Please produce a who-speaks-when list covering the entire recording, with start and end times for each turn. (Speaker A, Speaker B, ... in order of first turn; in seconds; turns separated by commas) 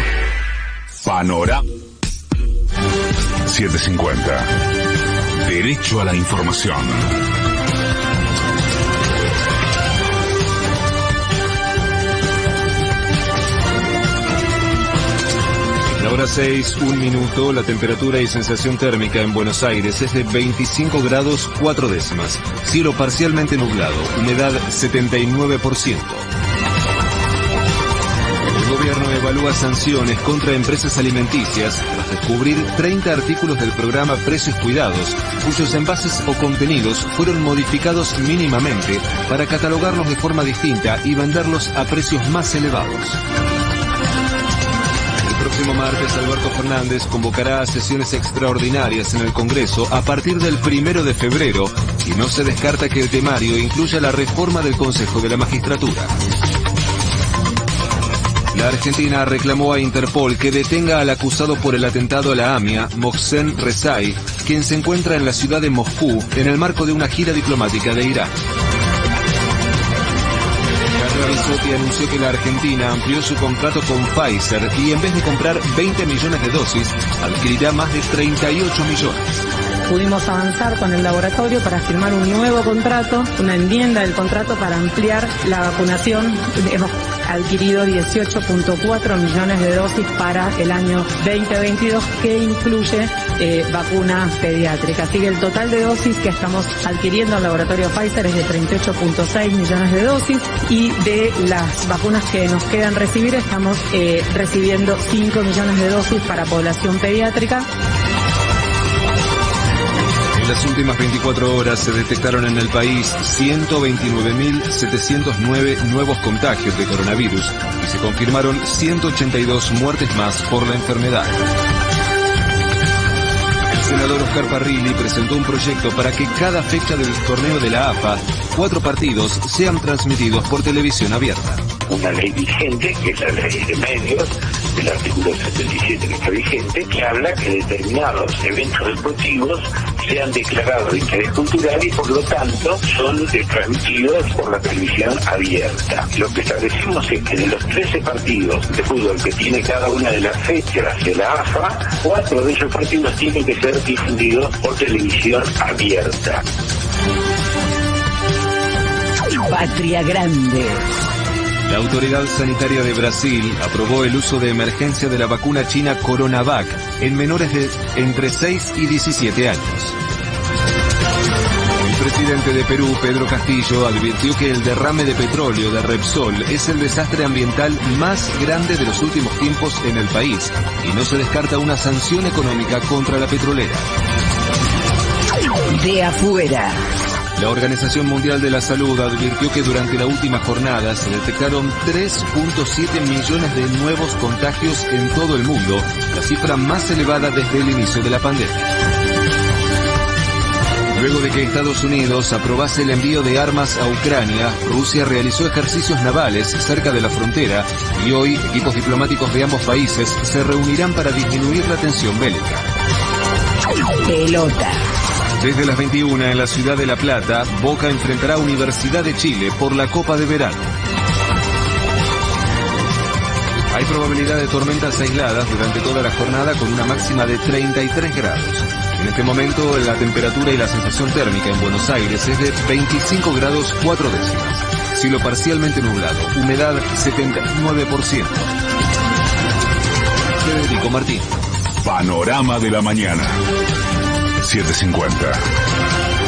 Speaker A: 1.0-1.6, Speaker A: 3.5-4.5, Speaker A: 5.4-7.1, Speaker B: 15.9-26.2, Speaker B: 28.5-43.2, Speaker B: 45.2-56.1, Speaker B: 58.5-68.3, Speaker B: 70.9-79.4, Speaker C: 79.9-107.7, Speaker B: 110.3-121.4, Speaker B: 123.7-131.7, Speaker D: 131.9-156.4, Speaker E: 159.5-160.8, Speaker B: 161.7-169.9, Speaker B: 171.8-183.9, Speaker E: 185.7-186.8, Speaker B: 187.3-198.7, Speaker B: 200.9-212.7, Speaker E: 214.1-214.8, Speaker B: 215.4-220.7, Speaker B: 223.7-238.5, Speaker B: 240.4-241.3, Speaker A: 241.8-243.4, Speaker A: 244.4-245.4